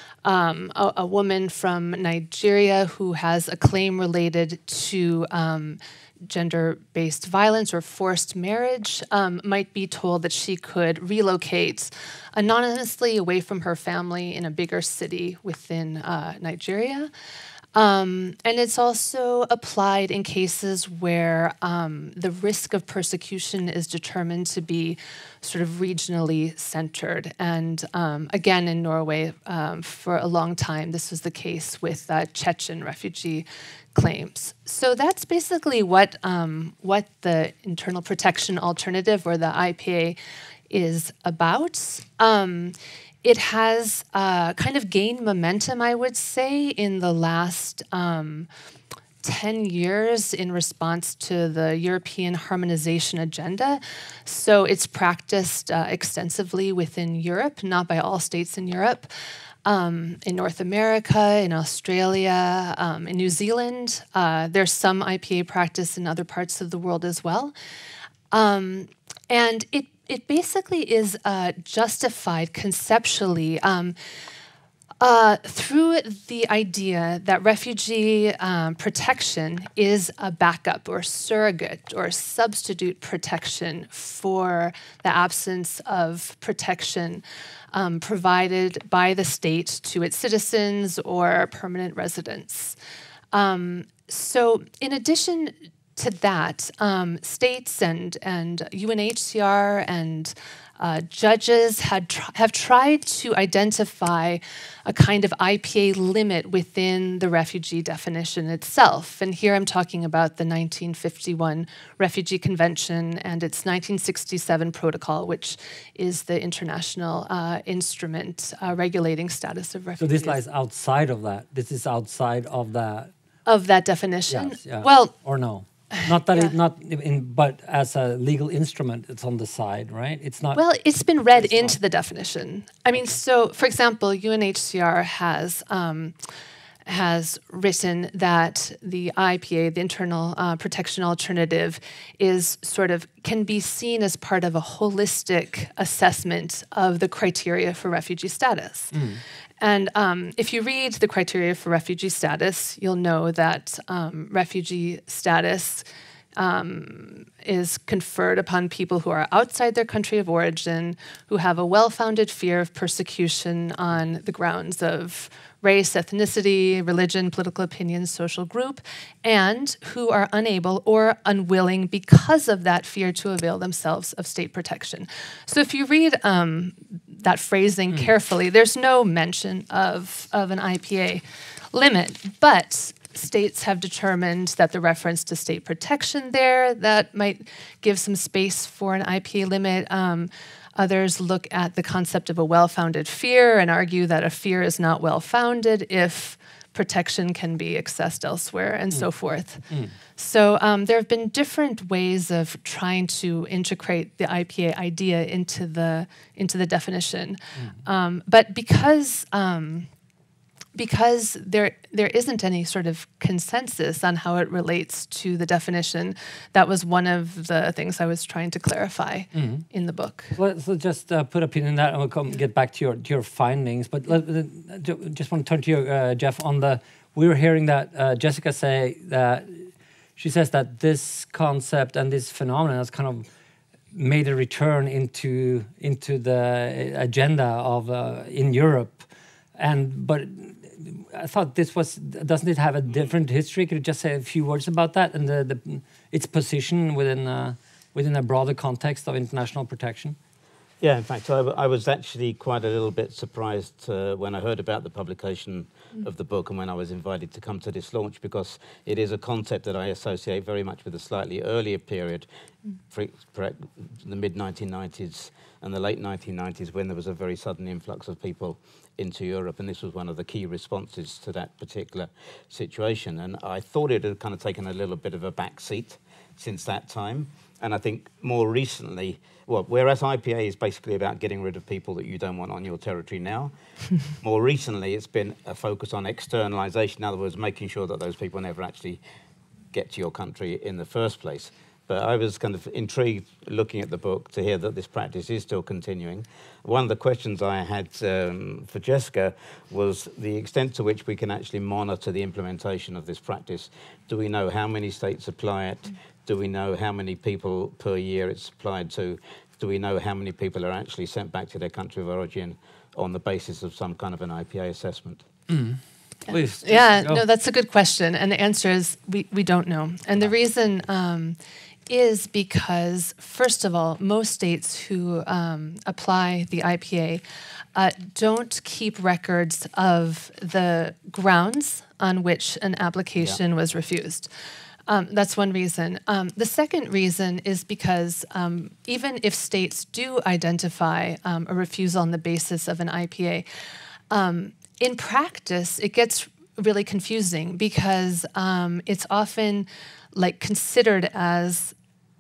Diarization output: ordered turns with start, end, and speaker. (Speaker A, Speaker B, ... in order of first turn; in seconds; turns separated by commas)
Speaker A: 0.2-17.1, Speaker A: 17.8-40.2, Speaker A: 40.7-48.5, Speaker A: 49.2-59.1, Speaker A: 59.6-67.5, Speaker A: 68.3-74.0, Speaker A: 75.0-92.8, Speaker A: 93.3-120.4, Speaker B: 120.0-123.1, Speaker A: 123.5-125.1, Speaker B: 124.3-130.6, Speaker A: 130.6-136.2, Speaker B: 131.4-131.8, Speaker A: 136.9-148.9, Speaker B: 148.9-149.2, Speaker A: 149.6-155.8, Speaker A: 156.4-199.7, Speaker A: 200.2-209.9, Speaker A: 210.8-220.4, Speaker B: 219.3-219.7, Speaker B: 220.4-233.3, Speaker B: 233.9-250.2, Speaker C: 250.8-262.3, Speaker C: 262.9-283.5, Speaker C: 284.1-289.0, Speaker C: 289.7-315.2, Speaker B: 315.5-317.2, Speaker A: 316.3-321.4, Speaker A: 321.9-327.2, Speaker A: 327.8-334.3, Speaker A: 334.9-343.4, Speaker A: 344.1-351.7